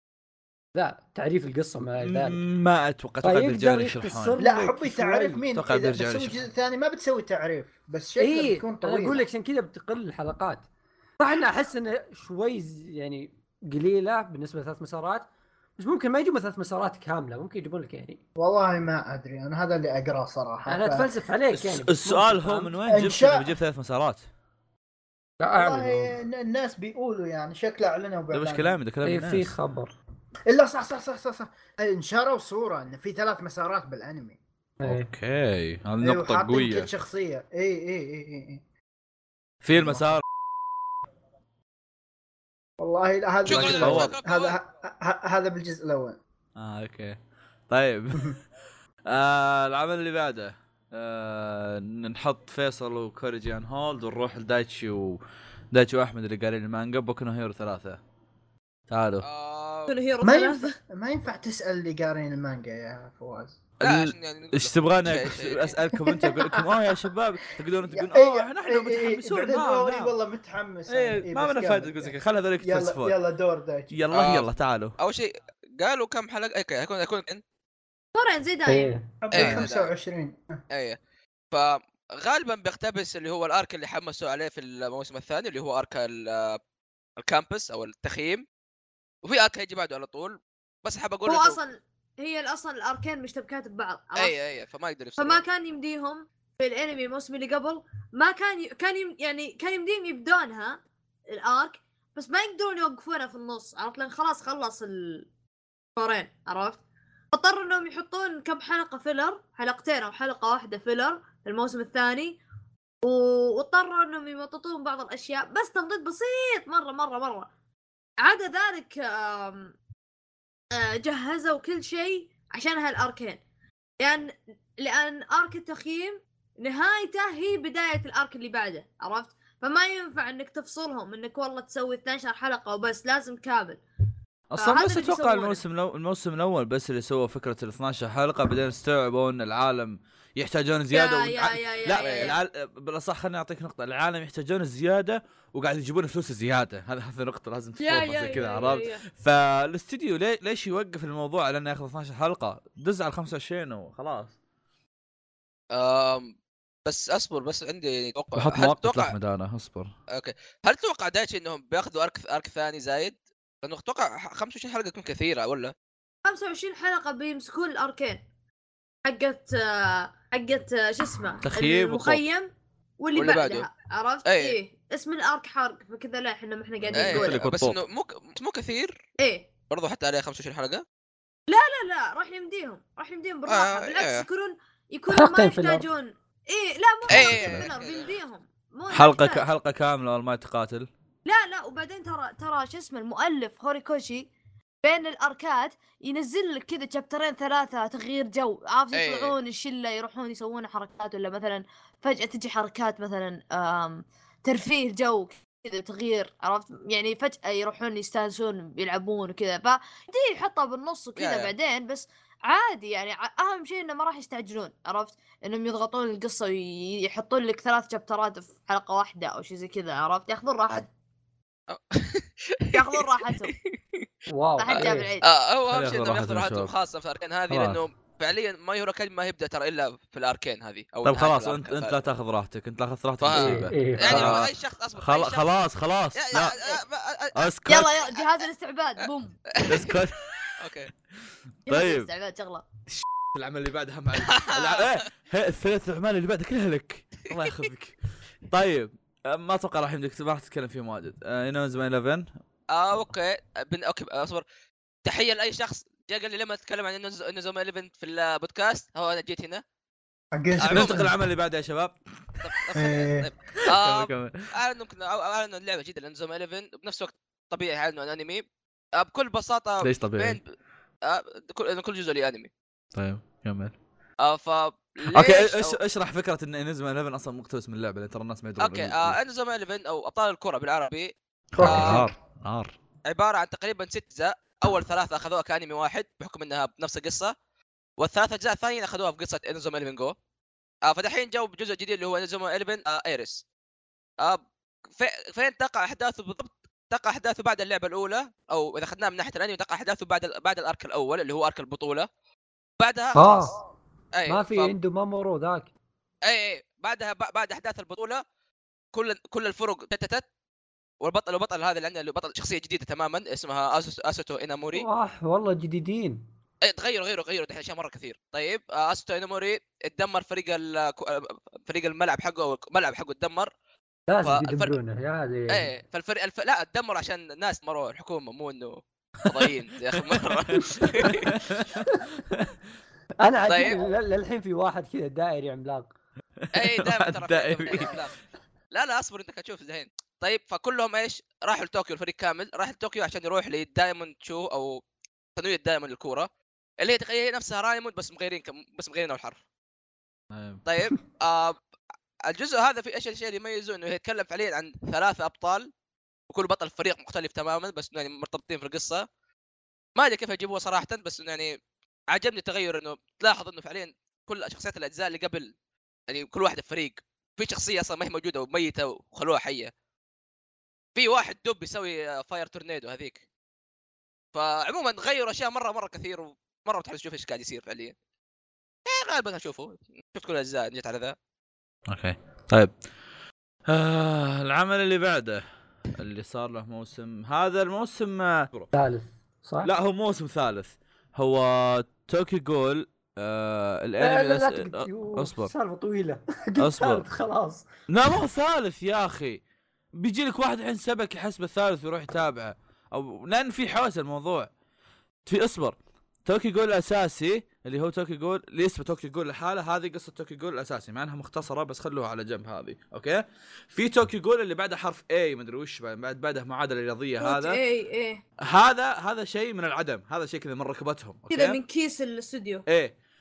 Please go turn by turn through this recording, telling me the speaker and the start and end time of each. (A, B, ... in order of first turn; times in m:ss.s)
0:00.7-0:02.4 A
0:02.0-0:04.4 B
0:03.2-0:05.4 A
0:04.4-0:09.2 C
0:05.5-0:06.4 B
0:08.2-0:10.6 A
0:11.2-0:18.2 A
0:18.4-0:21.1 C
0:20.7-0:22.8 A
0:21.5-0:24.2 B
0:22.9-0:23.5 C
0:25.4-0:26.2 A
0:25.5-0:28.7 C
0:28.3-0:29.5 B
0:29.0-0:29.9 A
0:30.5-0:34.4 C
0:34.8-0:35.1 A
0:34.8-0:36.9 B
0:36.0-0:38.6 C
0:39.6-0:40.2 B
0:39.8-0:40.2 C
0:42.8-0:46.2 C
0:43.4-0:44.6 D
0:43.5-0:44.1 B
0:46.6-0:47.2 B
0:47.7-0:48.4 B
0:49.1-0:55.2 B
0:55.7-0:58.0 B
0:58.9-0:59.2 B
0:59.2-0:59.9 D
0:59.9-1:00.8 E
1:00.2-1:03.6 C
1:03.8-1:10.1 B
1:03.8-1:05.7 D
1:07.9-1:14.0 C
1:10.9-1:13.1 B
1:13.9-1:15.0 B
1:14.1-1:17.4 D
1:18.1-1:18.9 E
1:18.6-1:19.1 A
1:19.2-1:20.6 C
1:19.3-1:19.9 D
1:20.7-1:21.0 D
1:21.5-1:26.6 D
1:27.2-1:28.4 D
1:29.2-1:31.6 D
1:31.2-1:34.3 E
1:34.2-1:35.4 D
1:35.2-1:40.8 E
1:41.3-1:45.2 E
1:46.0-1:46.8 E
1:47.3-1:52.4 E
1:53.0-1:57.5 E
1:58.2-1:59.7 E
2:00.7-2:03.4 E
2:04.0-2:13.8 E
2:14.5-2:34.3 B
2:14.6-2:15.6 E
2:20.9-2:22.4 E
2:22.0-2:22.4 D
2:27.8-2:29.0 E
2:35.7-2:36.3 D
2:36.8-2:39.1 D
2:38.3-2:39.9 B
2:40.1-2:45.7 D
2:46.2-2:48.2 E
2:49.0-2:57.4 E
2:51.4-2:52.2 B
2:53.1-2:53.7 D
2:54.2-2:54.6 D
2:56.8-2:57.8 B
2:56.9-2:59.0 D
2:59.2-2:59.5 E
2:59.7-3:00.8 D
3:01.5-3:09.5 E
3:03.5-3:04.2 D
3:05.1-3:05.9 A
3:07.0-3:07.7 B
3:07.1-3:08.1 D
3:08.9-3:10.9 B
3:11.2-3:14.3 E
3:14.8-3:40.9 E
3:18.9-3:19.3 D
3:31.2-3:31.5 D
3:41.7-3:44.0 D
3:42.7-3:43.5 E
3:44.3-3:45.1 A
3:44.6-3:45.2 E
3:44.7-3:52.0 D
3:45.7-3:46.7 B
3:47.5-3:47.8 B
3:51.0-3:56.6 B
3:53.2-3:55.5 D
3:53.3-3:54.4 A
3:56.1-3:57.4 D
3:57.3-3:57.9 B
3:57.7-3:59.4 E
3:59.5-3:59.9 D
3:59.6-4:00.6 B
4:00.6-4:00.9 D
4:01.6-4:02.1 B
4:01.7-4:02.6 E
4:02.9-4:08.0 B
4:04.2-4:04.9 D
4:08.5-4:12.3 B
4:12.7-4:14.4 D
4:15.0-4:19.6 D
4:20.3-4:21.1 C
4:20.6-4:22.0 B
4:20.6-4:21.0 D
4:22.4-4:28.4 D
4:22.7-4:23.3 C
4:23.6-4:24.5 B
4:28.9-4:30.5 D
4:29.8-4:30.4 B
4:31.0-4:32.5 D
4:32.9-4:33.8 B
4:34.2-4:35.8 D
4:35.0-4:39.2 B
4:38.6-4:42.0 D
4:41.6-4:42.7 B
4:41.6-4:42.1 C
4:43.0-4:47.3 D
4:48.0-4:50.1 D
4:50.8-4:53.4 D
4:55.0-5:02.1 D
5:02.8-5:03.5 D
5:03.1-5:03.6 A
5:04.1-5:04.7 D
5:04.2-5:05.7 A
5:06.2-5:08.2 D
5:08.9-5:10.2 D
5:11.0-5:14.8 D
5:14.7-5:16.2 A
5:16.6-5:23.5 D
5:24.1-5:25.7 A
5:24.2-5:24.8 D
5:25.5-5:31.4 D
5:29.2-5:32.6 B
5:33.2-5:35.9 A
5:33.5-5:33.8 D
5:36.4-5:37.9 B
5:36.5-5:38.1 D
5:38.7-5:44.8 D
5:45.4-5:46.3 D
5:46.8-5:49.4 D
5:50.3-5:50.6 B
5:50.6-5:51.6 D
5:52.2-5:55.7 D
5:56.3-5:59.0 D
6:00.0-6:01.6 D
6:02.1-6:05.5 D
6:06.1-6:09.7 D
6:11.0-6:13.2 D
6:14.3-6:17.9 D
6:18.8-6:21.1 D
6:21.9-6:22.7 B
6:23.7-6:25.4 B
6:25.9-6:28.7 B
6:28.7-6:29.7 A
6:29.6-6:35.5 B
6:34.0-6:37.6 A
6:36.6-6:37.1 B
6:37.9-6:39.4 B
6:40.0-6:44.5 B
6:45.2-6:57.6 B
6:57.2-6:58.2 E
6:58.4-7:01.6 B
7:01.3-7:02.6 E
7:02.7-7:02.9 B